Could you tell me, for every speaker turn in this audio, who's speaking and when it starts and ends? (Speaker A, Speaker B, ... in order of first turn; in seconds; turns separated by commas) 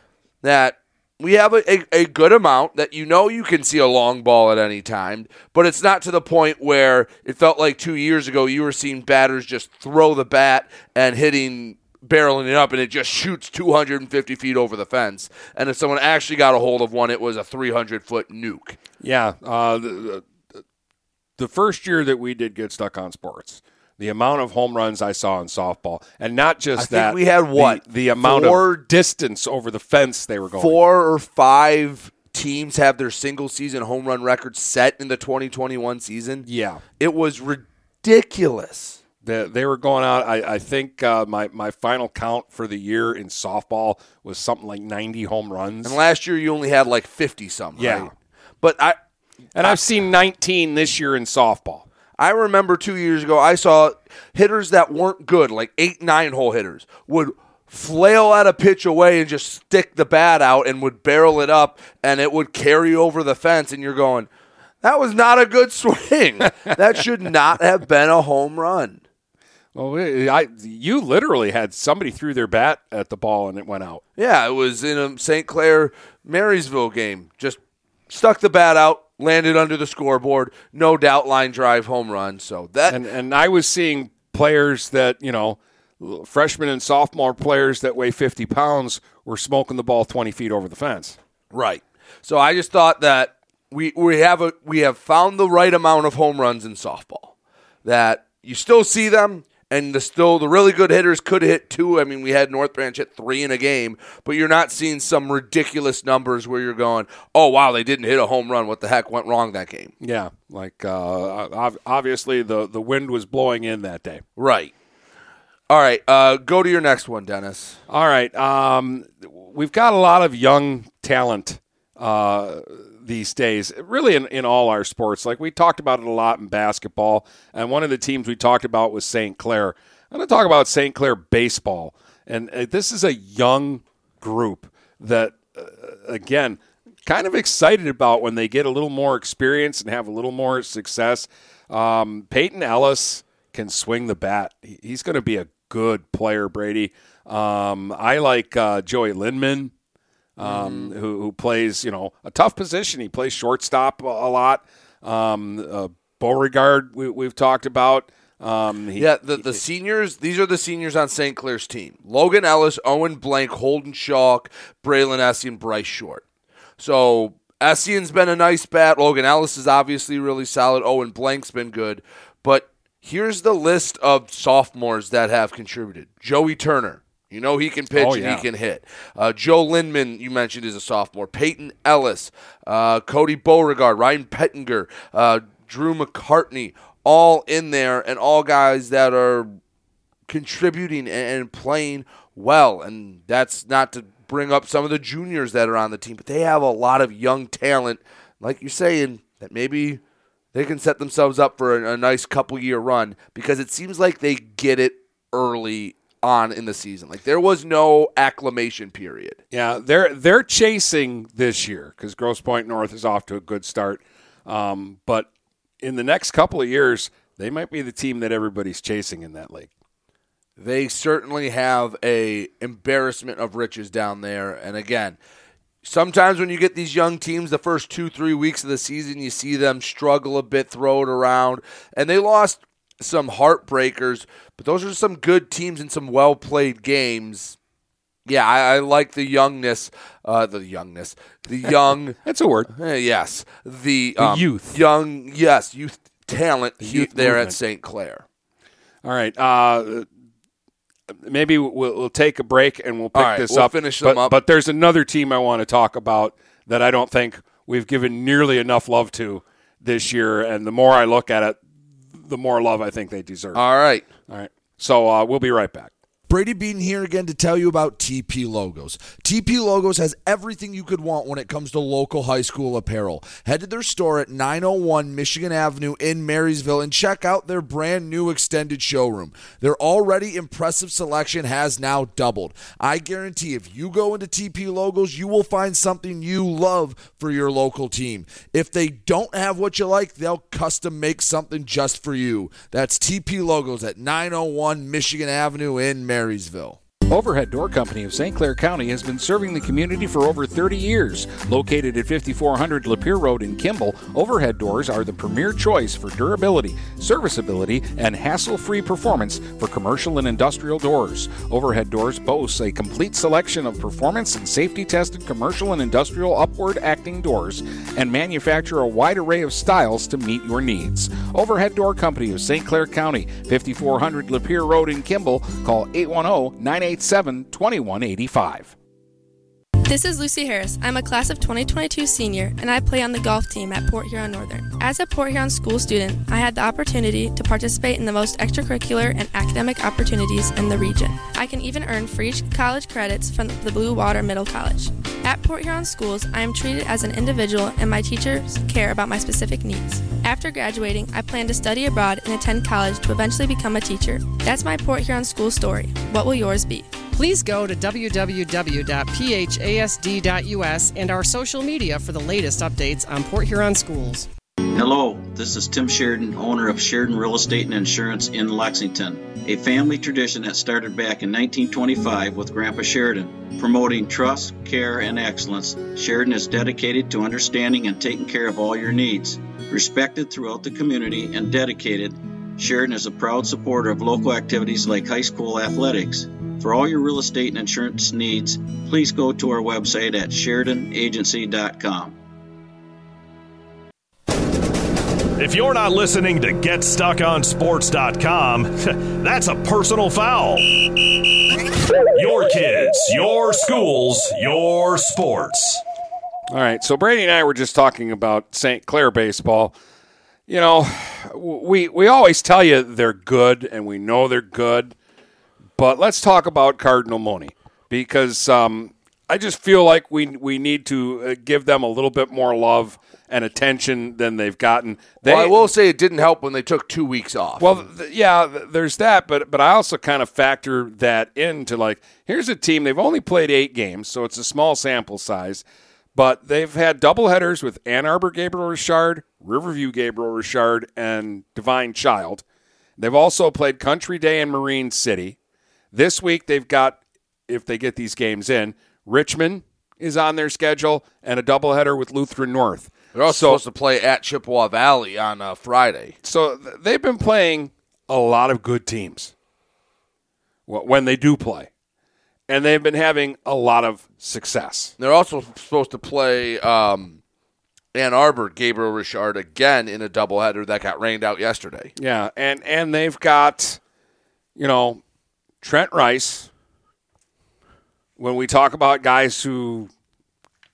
Speaker A: 0.4-18.8, Speaker B: 19.0-20.2, Speaker B: 21.4-30.8, Speaker A: 26.8-28.8, Speaker A: 30.6-36.5, Speaker B: 36.4-36.8, Speaker A: 37.0-39.0, Speaker B: 39.2-46.0, Speaker A: 45.8-48.1, Speaker B: 47.8-48.1, Speaker A: 48.6-49.0, Speaker B: 49.5-51.9, Speaker A: 52.2-64.3, Speaker A: 64.8-69.0, Speaker B: 69.7-74.0, Speaker A: 74.2-83.0, Speaker B: 82.9-91.2, Speaker A: 91.5-97.3, Speaker A: 97.8-109.9, Speaker B: 110.0-114.2, Speaker A: 114.4-114.7, Speaker A: 115.7-117.8, Speaker B: 117.9-149.7, Speaker B: 150.4-159.6, Speaker A: 150.4-150.9, Speaker A: 159.0-166.2, Speaker A: 166.8-189.6, Speaker B: 177.9-178.4, Speaker A: 190.3-200.0, Speaker A: 200.5-209.4, Speaker B: 209.5-215.3, Speaker B: 215.8-219.7, Speaker A: 220.6-225.2, Speaker A: 225.8-237.6, Speaker A: 238.2-242.2, Speaker B: 242.2-242.7, Speaker A: 242.7-248.2, Speaker B: 244.2-244.8, Speaker B: 246.8-247.5, Speaker B: 249.0-250.1, Speaker B: 251.1-261.6, Speaker A: 253.1-254.4, Speaker B: 262.1-263.6, Speaker A: 263.5-264.1, Speaker B: 264.3-265.9, Speaker A: 266.3-296.8, Speaker C: 297.1-328.7, Speaker D: 329.8-356.9, Speaker E: 357.1-364.3, Speaker F: 364.7-392.2, Speaker G: 395.4-400.7, Speaker G: 402.1-405.8, Speaker B: 406.5-409.7, Speaker B: 410.5-414.9, Speaker B: 415.8-425.6, Speaker A: 425.2-427.8, Speaker B: 427.6-442.4, Speaker B: 443.0-445.4, Speaker B: 445.9-453.6, Speaker A: 453.1-456.1, Speaker B: 456.2-459.3, Speaker B: 460.7-461.7, Speaker B: 462.5-464.9, Speaker A: 465.0-467.2, Speaker A: 467.9-471.9, Speaker B: 471.9-473.8, Speaker B: 474.6-475.0, Speaker B: 475.6-476.5, Speaker B: 478.2-479.9